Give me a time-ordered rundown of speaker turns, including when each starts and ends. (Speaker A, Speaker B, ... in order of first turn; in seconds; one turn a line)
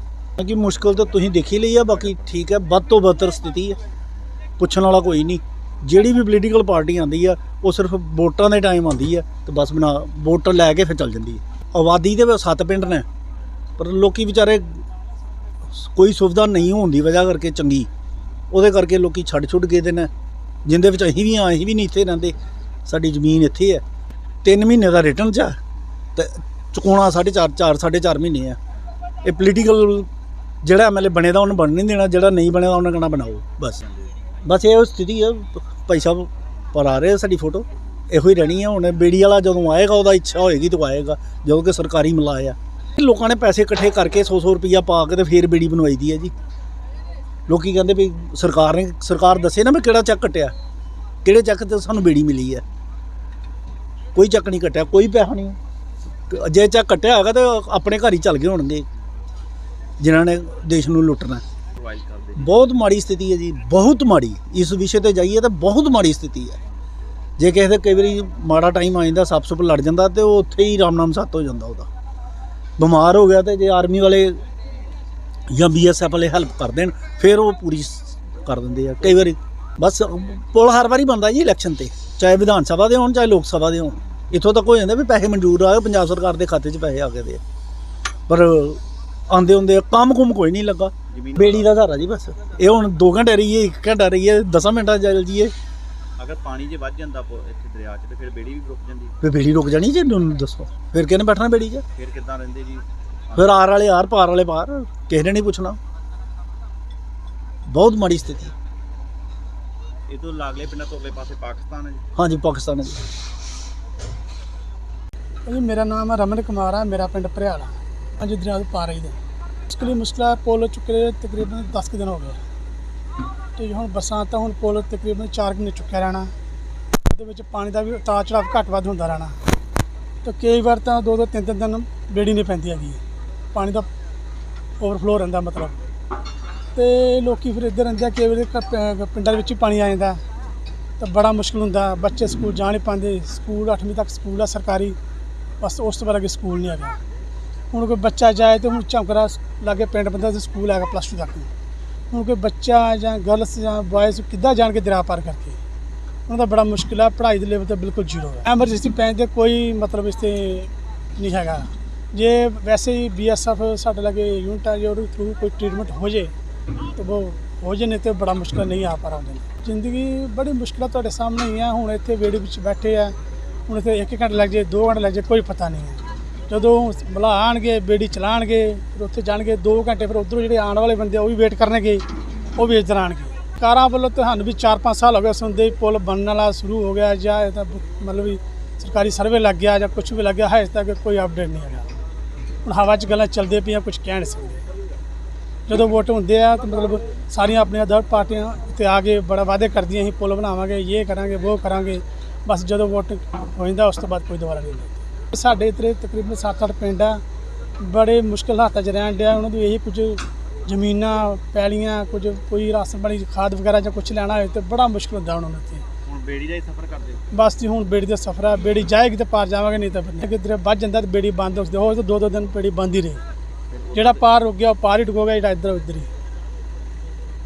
Speaker A: 0.4-3.8
Speaker B: 1.9-2.3
Speaker A: 4.6-13.1
Speaker A: 13.8-14.8
Speaker A: 15.7-17.9
Speaker A: 18.5-20.1
Speaker A: 20.6-22.3
Speaker A: 22.9-23.8
Speaker A: 24.4-25.6
Speaker A: 26.1-28.6
Speaker A: 29.2-30.1
Speaker A: 30.6-33.8
Speaker B: 33.8-34.1
Speaker A: 34.4-46.3
Speaker A: 47.5-50.5
Speaker A: 51.2-52.6
Speaker A: 54.1-55.6
Speaker A: 56.3-58.9
Speaker A: 60.0-61.4
Speaker B: 61.8-62.6
Speaker A: 62.4-66.6
Speaker A: 67.4-71.9
Speaker A: 72.8-74.4
Speaker A: 75.5-87.4
Speaker A: 88.3-95.5
Speaker B: 91.1-91.7
Speaker B: 96.2-99.2
Speaker A: 99.2-101.8
Speaker B: 102.0-103.5
Speaker A: 103.3-105.8
Speaker A: 107.7-108.5
Speaker B: 110.1-112.0
Speaker A: 112.1-113.0
Speaker C: 115.5-119.2
Speaker C: 119.7-122.4
Speaker C: 123.5-126.3
Speaker C: 127.0-129.3
Speaker C: 130.2-133.0
Speaker C: 133.5-133.9
Speaker C: 134.8-135.8
Speaker C: 136.7-140.2
Speaker C: 141.0-144.9
Speaker C: 145.6-147.0
Speaker C: 147.7-151.5
Speaker C: 152.1-155.6
Speaker C: 156.3-166.3
Speaker C: 166.9-173.2
Speaker C: 173.7-182.0
Speaker C: 182.6-191.9
Speaker C: 192.6-194.6
Speaker C: 195.7-207.2
Speaker C: 207.8-215.8
Speaker B: 216.1-217.2
Speaker C: 217.3-223.2
Speaker B: 223.7-224.2
Speaker C: 223.9-226.1